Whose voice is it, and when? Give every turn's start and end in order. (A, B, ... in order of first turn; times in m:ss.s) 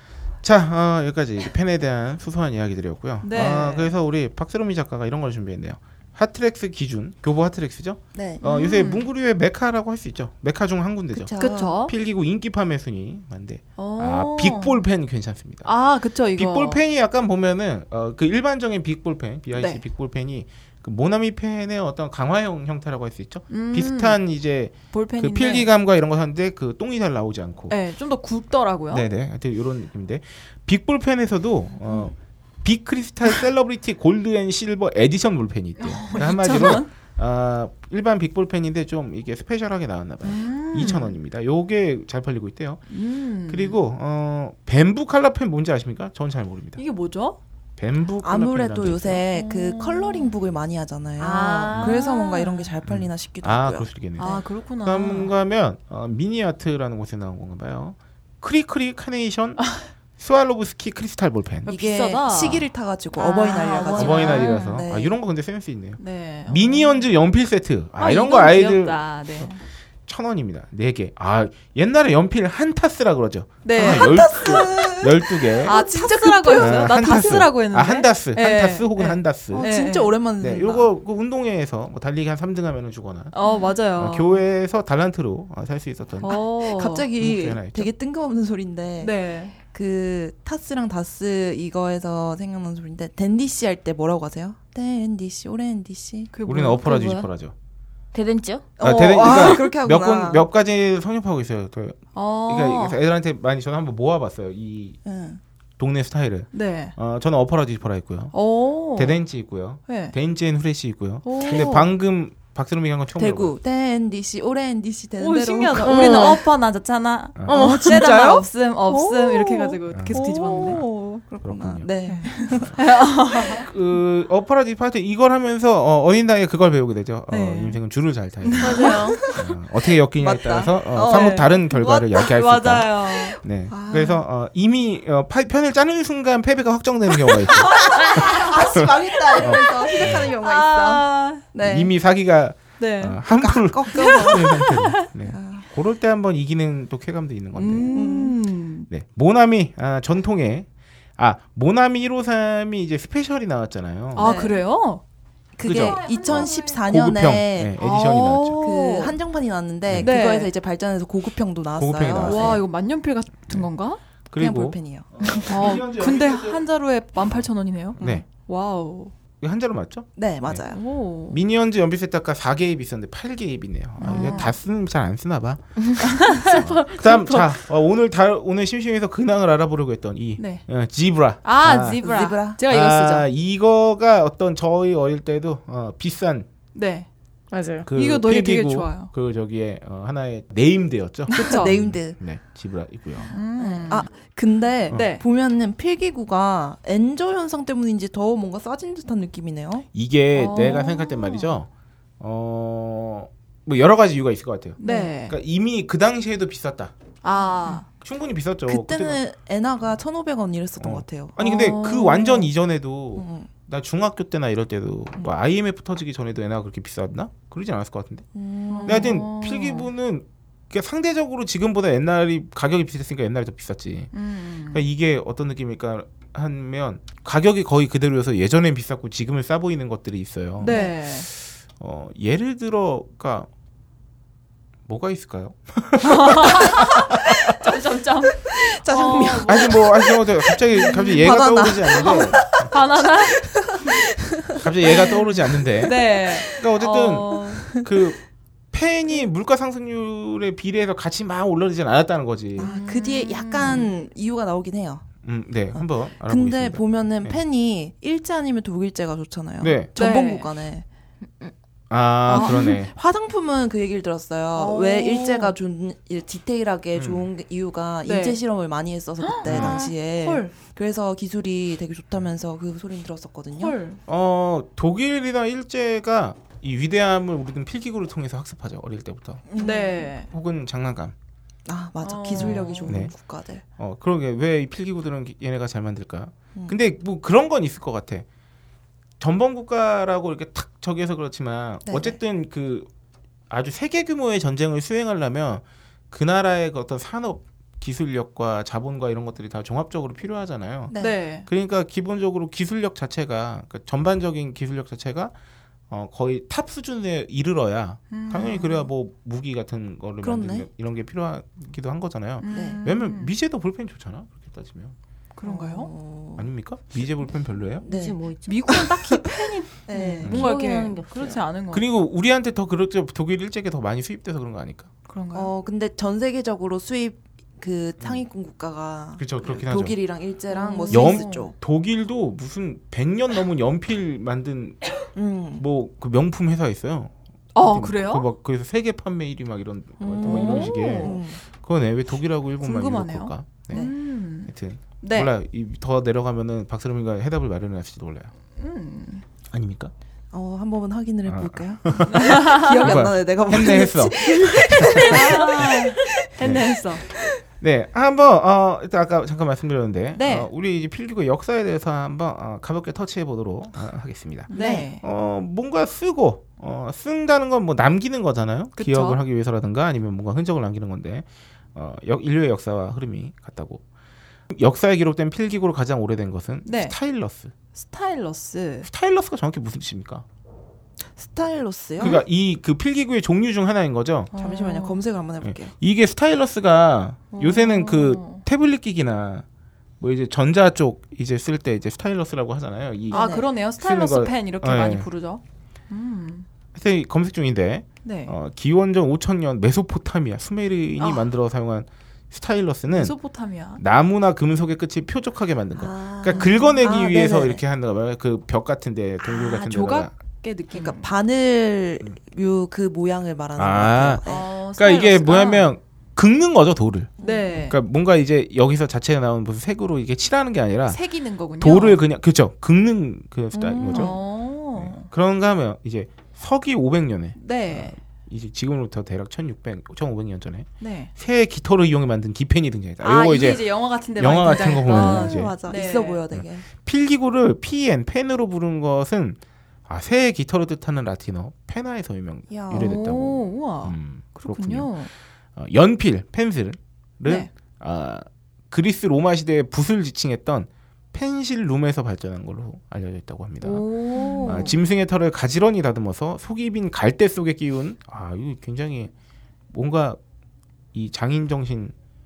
0:00.4-0:15.7 A
0:03.2-0:03.9 B
0:08.1-0:08.4 C
0:08.4-0:09.1 B
0:11.1-0:11.8 C
0:11.4-0:11.9 B
0:13.8-0:14.8 B
0:15.6-0:16.8 B
0:16.3-0:27.8 A
0:19.6-0:19.8 B
0:23.5-0:24.2 B
0:24.9-0:25.7 B
0:27.7-0:29.1 B
0:28.9-0:42.8 A
0:35.8-0:36.9 B
0:40.2-0:41.2 B
0:42.9-0:43.8 B
0:43.5-0:46.8 A
0:46.8-0:47.4 B
0:47.8-0:49.2 A
0:48.2-0:54.4 C
0:49.3-0:50.3 B
0:51.2-0:52.7 B
0:51.7-0:52.0 A
0:52.8-0:59.6 A
0:54.2-0:55.3 B
1:00.2-1:01.7 A
1:01.6-1:04.8 B
1:01.7-1:05.1 C
1:03.9-1:09.5 A
1:06.0-1:07.0 B
1:08.0-1:09.6 B
1:10.1-1:15.8 A
1:13.6-1:14.3 B
1:13.8-1:17.4 C
1:15.6-1:20.1 B
1:16.5-1:19.7 A
1:19.5-1:20.9 C
1:20.4-1:23.3 A
1:23.3-1:24.4 B
1:23.4-1:23.7 C
1:24.0-1:26.4 A
1:26.2-1:27.1 B
1:26.3-1:36.3 C
1:27.2-1:27.9 A
1:29.0-1:29.5 B
1:36.3-1:36.8 B
1:36.4-1:37.5 A
1:36.8-1:37.3 D
1:38.1-1:38.7 D
1:38.8-1:40.4 C
1:38.8-1:45.0 A
1:42.1-1:43.0 B
1:45.0-1:45.4 C
1:45.8-1:48.3 A
1:46.5-1:46.9 B
1:48.3-1:49.2 B
1:48.9-1:53.5 A
1:49.9-1:50.1 B
1:51.2-1:51.7 B
1:51.2-1:51.9 C
1:53.2-1:56.4 C
1:55.2-2:00.8 B
1:55.8-1:56.4 D
1:57.4-1:57.8 A
1:57.5-2:03.7 C
1:57.5-1:57.8 D
1:59.9-2:00.8 A
2:01.4-2:01.9 A
2:02.0-2:03.7 B
2:02.4-2:02.9 A
2:03.6-2:20.3 A
2:07.3-2:07.8 B
2:08.4-2:09.3 B
2:08.6-2:09.2 D
2:08.7-2:09.4 C
2:10.2-2:12.1 C
2:11.1-2:13.4 B
2:13.7-2:14.2 C
2:17.6-2:18.5 B
2:17.6-2:21.9 C
2:19.3-2:21.4 B
2:21.6-2:28.1 A
2:22.8-2:23.2 B
2:23.4-2:24.5 C
2:23.9-2:25.0 B
2:25.2-2:25.6 C
2:27.5-2:28.9 B
2:27.9-2:28.4 C
2:28.9-2:30.7 A
2:31.2-2:34.3 A
2:34.1-2:35.0 B
2:34.2-2:34.6 C
2:35.6-2:37.7 C
2:35.6-2:38.6 A
2:35.7-2:36.9 B
2:37.8-2:39.2 B
2:38.6-2:42.6 C
2:39.9-2:40.1 A
2:40.0-2:40.5 B
2:41.8-2:42.6 A
2:42.2-2:44.0 B
2:44.3-2:46.6 A
2:44.3-2:45.5 C
2:45.4-2:49.1 B
2:48.0-2:48.2 A
2:49.4-2:50.6 A
2:50.2-2:50.8 C
2:50.7-2:51.4 B
2:51.3-3:02.0 A
2:54.0-2:54.5 B
2:54.0-2:54.5 C
2:56.0-2:57.5 D
2:56.2-2:56.6 B
3:00.4-3:00.6 B
3:01.4-3:03.3 B
3:02.0-3:02.6 C
3:02.7-3:06.5 A
3:06.7-3:07.1 B
3:07.5-3:07.9 D
3:07.8-3:13.3 A
3:07.9-3:09.1 B
3:11.3-3:12.2 C
3:11.4-3:11.7 B
3:13.3-3:14.1 B
3:13.4-3:19.8 C
3:14.9-3:15.2 B
3:19.9-3:21.7 A
3:20.3-3:21.6 B
3:22.2-3:26.9 A
3:24.8-3:25.4 B
3:24.8-3:25.1 C
3:27.2-3:27.9 B
3:28.0-3:29.2 A
3:28.7-3:31.4 C
3:30.8-3:38.2 A
3:31.4-3:32.5 B
3:33.1-3:33.5 C
3:38.3-3:39.2 C
3:38.7-3:39.9 B
3:38.8-3:44.1 A
3:44.1-3:44.8 B
3:44.7-3:53.5 A
3:50.6-3:51.3 B
3:50.6-3:50.9 C
3:54.8-3:57.7 A
3:56.0-3:59.9 B
3:58.6-4:06.6 C
3:59.4-4:02.7 A
4:00.9-4:01.2 B
4:01.9-4:03.6 B
4:04.6-4:08.2 A
4:04.8-4:07.8 B
4:08.7-4:12.7 A
4:12.6-4:15.0 C
4:12.6-4:13.9 B
4:15.2-4:17.4 A
4:15.7-4:20.8 C
4:19.6-4:19.9 A
4:20.0-4:20.5 B
4:21.9-4:22.9 A
4:22.3-4:33.8 C
4:22.3-4:22.8 B
4:24.5-4:25.5 B
4:26.9-4:27.3 A
4:28.0-4:28.4 B
4:29.2-4:30.5 B
4:29.4-4:29.8 A
4:33.6-4:34.0 B
4:34.0-4:39.5 A
4:39.5-4:40.1 C
4:39.6-4:40.3 B
4:40.3-4:41.1 A
4:41.7-4:43.6 C
4:42.0-4:43.0 B
4:42.4-4:43.1 A
4:43.8-4:48.2 A
4:49.2-4:52.9 A
4:51.8-4:52.2 C
4:53.5-5:05.3 A
5:00.9-5:01.5 B
5:05.9-5:15.0 A
5:08.1-5:08.9 B
5:10.2-5:10.7 C
5:12.4-5:13.3 B
5:12.5-5:12.8 C
5:15.4-5:15.9 B
5:15.4-5:16.5 C
5:16.4-5:17.8 A
5:17.8-5:18.8 D
5:17.8-5:18.2 C
5:18.4-5:21.9 B
5:19.8-5:20.4 C
5:20.2-5:21.4 D
5:20.2-5:20.5 A
5:21.7-5:24.9 A
5:25.1-5:25.5 B
5:25.3-5:31.5 C
5:29.2-5:30.0 A
5:30.5-5:31.5 B
5:30.9-5:34.8 A
5:35.1-5:35.6 C
5:35.6-5:43.8 A
5:37.5-5:38.3 B
5:40.0-5:41.4 C
5:40.2-5:41.2 B
5:42.6-5:45.3 B
5:44.5-5:48.3 A
5:48.6-5:49.2 B
5:49.5-5:49.9 A
5:50.3-5:56.2 C
5:51.2-5:55.7 A
5:52.0-5:53.0 B
5:55.0-5:57.1 B
5:56.4-5:56.7 A
5:57.6-6:13.8 A
6:00.2-6:00.5 B
6:04.5-6:04.9 C
6:04.5-6:05.0 B
6:08.8-6:09.2 B
6:14.5-6:17.5 A
6:16.6-6:17.0 B
6:17.8-6:18.9 B
6:18.8-6:20.2 A
6:21.1-6:22.2 C
6:22.0-6:24.3 A
6:24.3-6:25.0 B
6:24.4-6:25.7 C
6:25.4-6:29.4 A
6:27.3-6:28.4 B
6:30.0-6:35.1 A
6:33.1-6:36.4 B
6:33.1-6:33.5 C
6:36.7-6:43.1 A
6:38.0-6:38.3 B
6:41.0-6:41.3 B
6:42.9-6:43.8 B
6:43.8-6:50.1 A
6:45.8-6:47.6 C
6:46.3-6:46.7 B
6:49.2-6:51.1 B
6:50.7-6:54.4 C
6:53.6-6:54.2 A
6:54.2-6:55.7 B
6:54.8-7:01.0 A
6:57.2-6:57.6 C
6:57.2-6:57.8 B
7:00.9-7:02.0 B
7:01.6-7:04.2 A
7:03.5-7:04.2 C
7:03.9-7:05.1 B
7:04.7-7:15.6 A
7:07.4-7:07.9 B
7:10.8-7:11.1 B
7:13.0-7:16.2 B
7:14.6-7:16.6 C
7:16.3-7:24.9 A
7:22.5-7:23.1 C
7:22.7-7:25.1 B
7:25.6-7:33.9 A
7:33.6-7:34.7 B
7:34.1-7:34.6 C
7:34.4-7:39.1 A
7:39.7-7:40.2 A
7:40.9-7:41.9 A